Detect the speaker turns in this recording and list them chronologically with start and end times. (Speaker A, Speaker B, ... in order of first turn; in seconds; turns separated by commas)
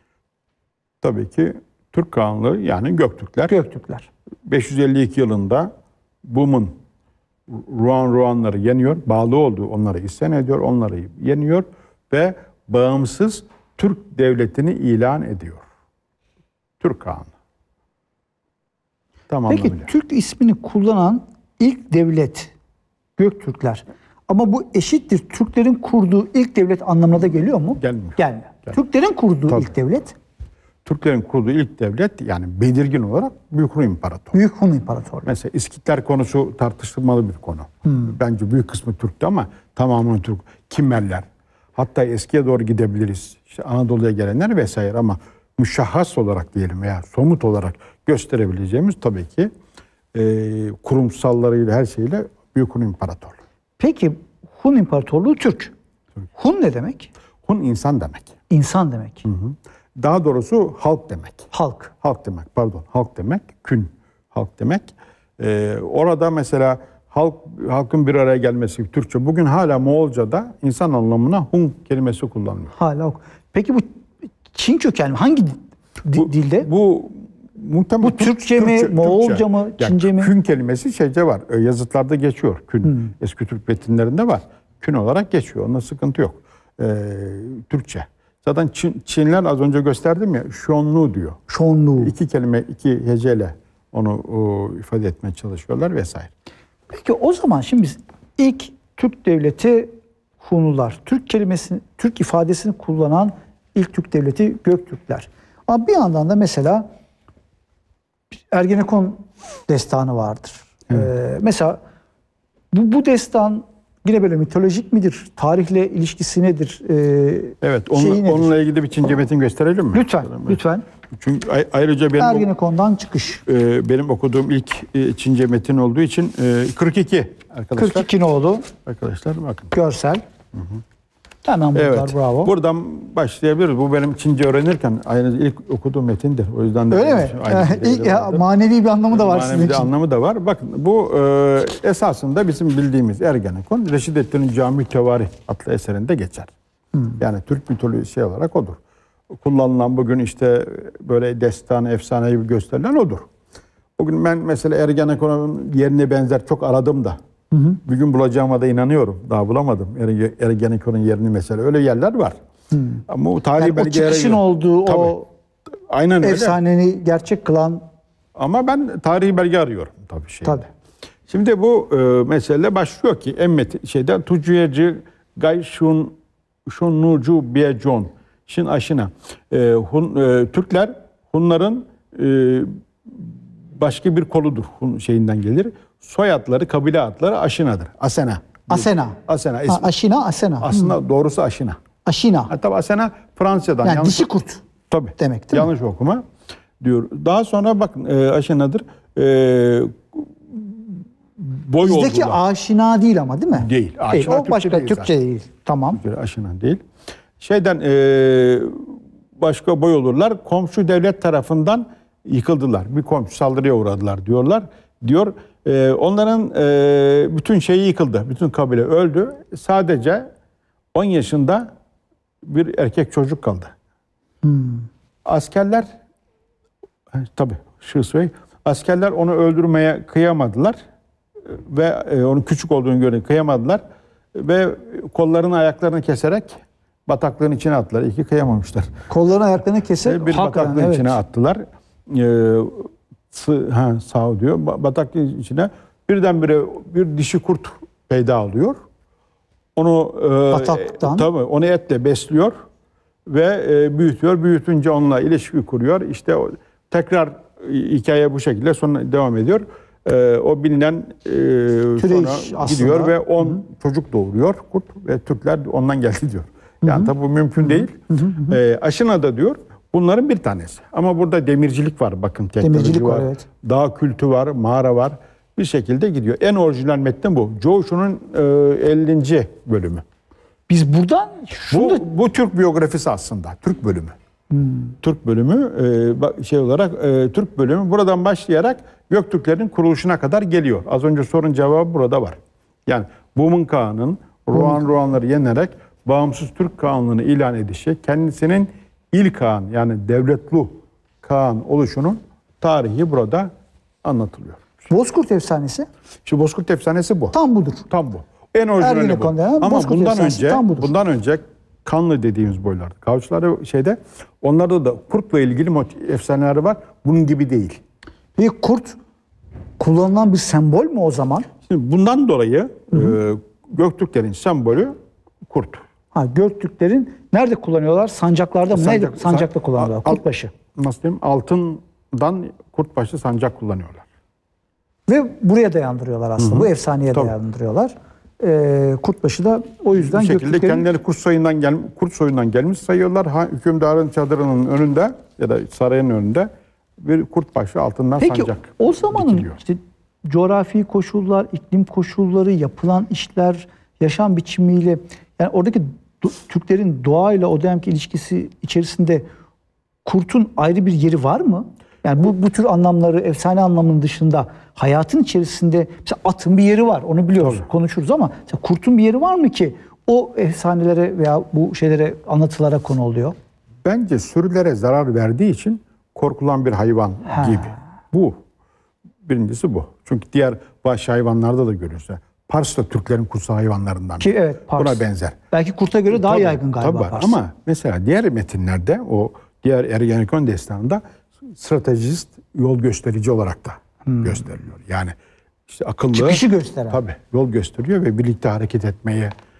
Speaker A: 1.0-3.5, Speaker B: 3.5-4.1, Speaker A: 4.5-5.7, Speaker A: 6.2-6.7, Speaker A: 7.5-15.7, Speaker A: 16.8-17.3, Speaker A: 19.3-19.9, Speaker B: 19.5-22.5, Speaker B: 23.2-30.2, Speaker A: 27.8-28.8, Speaker A: 30.9-34.4, Speaker B: 34.3-35.3, Speaker A: 35.3-49.5, Speaker A: 50.1-53.4, Speaker B: 53.8-55.7, Speaker B: 56.4-57.1, Speaker A: 57.5-58.3, Speaker B: 58.5-59.3, Speaker A: 59.2-61.5, Speaker B: 61.5-61.9, Speaker A: 62.0-72.7, Speaker B: 72.8-73.9, Speaker B: 74.5-76.7, Speaker A: 76.2-91.4, Speaker B: 78.0-80.3, Speaker B: 91.5-92.1, Speaker A: 92.0-96.3, Speaker B: 96.9-106.9, Speaker B: 108.5-111.8, Speaker B: 112.7-118.5, Speaker A: 117.6-120.6, Speaker B: 119.9-120.8, Speaker A: 121.1-122.5, Speaker B: 122.2-123.4, Speaker A: 123.5-128.1, Speaker B: 127.8-128.7, Speaker A: 128.9-129.7, Speaker B: 129.7-130.2, Speaker A: 130.5-130.8, Speaker B: 131.4-132.5, Speaker A: 131.8-138.4, Speaker B: 136.9-139.9, Speaker A: 139.1-146.5, Speaker A: 147.2-148.8, Speaker A: 149.3-153.3, Speaker A: 154.0-157.2, Speaker B: 157.5-157.8, Speaker A: 157.8-162.3, Speaker B: 162.7-163.0, Speaker A: 163.1-165.2, Speaker B: 163.6-165.3, Speaker A: 165.9-166.6, Speaker B: 166.2-167.8, Speaker A: 168.4-170.7, Speaker A: 171.3-176.2, Speaker A: 176.7-189.9, Speaker B: 188.7-190.9, Speaker A: 190.6-191.8, Speaker B: 192.1-192.5, Speaker A: 192.5-194.3, Speaker B: 193.8-194.6, Speaker A: 194.9-196.2, Speaker B: 195.2-195.7, Speaker A: 196.8-202.4, Speaker B: 201.8-206.0, Speaker A: 203.5-205.1, Speaker A: 205.9-206.8, Speaker A: 207.4-220.3, Speaker A: 220.9-221.7, Speaker A: 222.4-223.7, Speaker B: 224.4-224.8, Speaker A: 225.2-225.9, Speaker A: 227.1-230.8, Speaker A: 231.5-233.8, Speaker A: 234.3-238.9, Speaker B: 239.1-241.2, Speaker A: 240.0-248.8, Speaker A: 249.8-252.5, Speaker B: 250.5-251.3, Speaker A: 253.3-280.0, Speaker B: 262.0-263.1, Speaker B: 267.8-268.5, Speaker B: 272.6-273.4, Speaker B: 280.7-282.1, Speaker A: 281.7-284.1, Speaker B: 284.6-284.9, Speaker A: 285.0-303.5, Speaker A: 304.0-304.6, Speaker B: 304.9-305.9, Speaker A: 306.3-307.4, Speaker B: 307.3-307.8, Speaker A: 307.9-317.8, Speaker B: 308.8-310.9, Speaker B: 318.4-319.0, Speaker B: 319.8-321.5, Speaker A: 321.7-324.9, Speaker A: 325.4-325.8, Speaker B: 326.1-330.5, Speaker A: 328.7-330.2, Speaker A: 330.8-334.1, Speaker B: 335.1-340.9, Speaker A: 336.4-337.3, Speaker A: 340.0-349.6, Speaker B: 348.2-359.3, Speaker B: 360.1-373.4, Speaker A: 373.9-378.4, Speaker B: 377.3-377.7, Speaker A: 379.2-385.4, Speaker B: 384.2-387.4, Speaker A: 386.1-395.1, Speaker A: 395.7-399.3, Speaker B: 396.1-397.0